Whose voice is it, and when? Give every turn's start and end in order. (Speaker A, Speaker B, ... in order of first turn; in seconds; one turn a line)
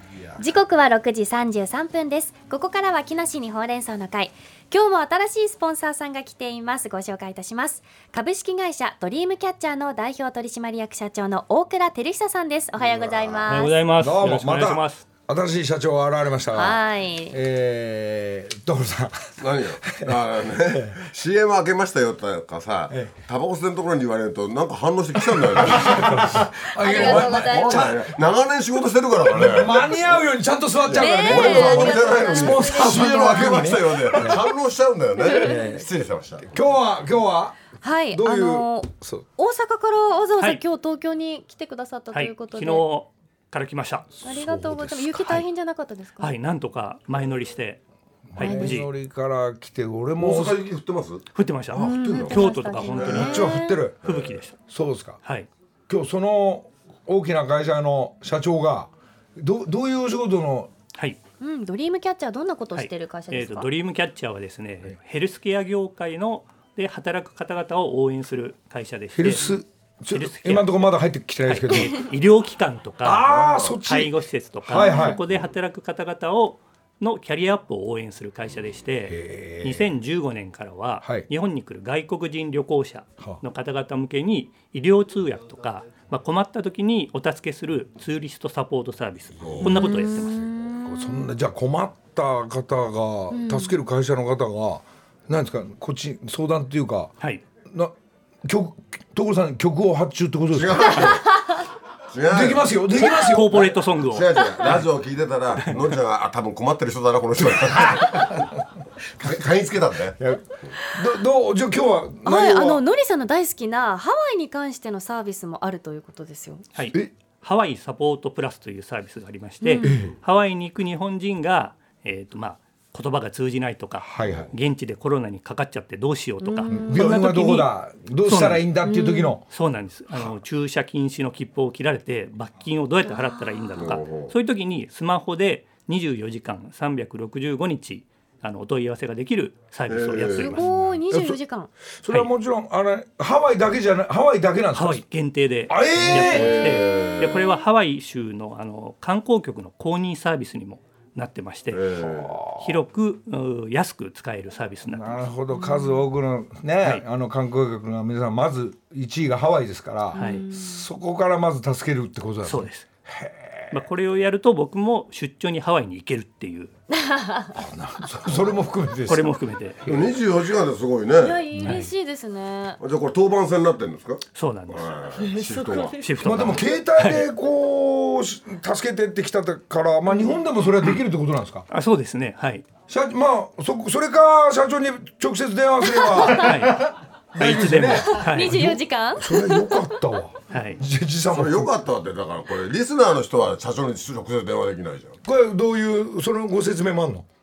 Speaker A: 0.4-13.8
Speaker B: 12.8-13.5
Speaker C: 13.5-15.0
Speaker D: 14.0-19.1
Speaker A: 16.5-17.4
Speaker B: 19.4-30.1
Speaker D: 20.7-21.0
Speaker D: 22.9-23.1
Speaker D: 25.6-28.1
Speaker A: 26.6-28.0
Speaker D: 29.3-34.4
Speaker B: 30.9-36.8
Speaker A: 30.9-33.7
Speaker A: 35.2-35.6
Speaker D: 35.3-35.8
Speaker D: 36.5-37.5
Speaker A: 37.8-42.9
Speaker D: 38.1-39.2
Speaker C: 42.1-44.2
Speaker A: 44.2-46.3
Speaker D: 44.2-45.4
Speaker C: 45.1-45.4
Speaker C: 46.2-47.8
Speaker D: 48.3-50.6
Speaker C: 48.4-48.9
Speaker A: 48.4-48.8
Speaker B: 50.2-53.4
Speaker C: 51.3-53.4
Speaker A: 51.7-53.9
Speaker D: 53.1-54.0
Speaker B: 54.0-54.4
Speaker C: 54.0-54.5
Speaker D: 54.7-55.2
Speaker C: 55.2-55.5
Speaker D: 55.9-60.7
Speaker A: 61.4-63.7
Speaker C: 62.7-69.6
Speaker D: 69.1-72.0
Speaker C: 70.1-70.8
Speaker C: 71.5-90.5
Speaker D: 73.0-75.2
Speaker B: 73.3-73.7
Speaker A: 74.8-75.2
Speaker D: 79.1-79.9
Speaker B: 89.4-89.8
Speaker D: 89.5-90.2
Speaker A: 89.7-91.3
Speaker D: 90.8-97.1
Speaker A: 93.3-93.8
Speaker D: 97.7-97.9
Speaker D: 98.4-101.1
Speaker B: 100.5-101.3
Speaker B: 102.1-102.8
Speaker D: 102.3-103.7
Speaker C: 103.0-104.8
Speaker B: 104.0-108.5
Speaker C: 105.6-106.0
Speaker B: 109.2-110.2
Speaker D: 110.2-112.8
Speaker A: 112.2-116.6
Speaker C: 116.7-127.7
Speaker A: 119.6-120.0
Speaker D: 119.8-120.1
Speaker D: 124.0-124.5
Speaker B: 124.2-124.5
Speaker A: 126.4-127.2
Speaker D: 126.7-129.4
Speaker C: 128.2-128.7
Speaker A: 128.8-129.4
Speaker C: 129.4-140.7
Speaker A: 133.0-133.9
Speaker B: 133.8-134.3
Speaker B: 139.9-140.6
Speaker A: 140.3-141.7
Speaker D: 140.7-141.4
Speaker D: 142.0-145.0
Speaker C: 144.7-151.9
Speaker D: 145.7-146.6
Speaker B: 146.1-147.5
Speaker B: 151.7-152.4
Speaker D: 152.0-152.8
Speaker C: 152.5-155.2
Speaker D: 154.9-163.8
Speaker A: 155.5-156.1
Speaker A: 160.1-160.8
Speaker C: 160.2-160.4
Speaker C: 162.4-162.8
Speaker C: 163.7-166.7
Speaker A: 166.9-167.6
Speaker D: 167.5-170.1
Speaker C: 169.1-169.8
Speaker B: 169.8-171.4
Speaker A: 171.1-172.8
Speaker C: 171.6-171.9
Speaker B: 172.8-176.0
Speaker C: 174.3-174.9
Speaker A: 175.2-176.1
Speaker C: 176.0-177.2
Speaker D: 176.2-181.7
Speaker C: 181.7-182.7
Speaker D: 182.9-191.7
Speaker A: 185.8-186.5
Speaker C: 186.3-186.9
Speaker C: 187.4-188.7
Speaker A: 188.0-190.0
Speaker C: 190.5-190.8
Speaker B: 191.3-195.2
Speaker D: 195.2-197.2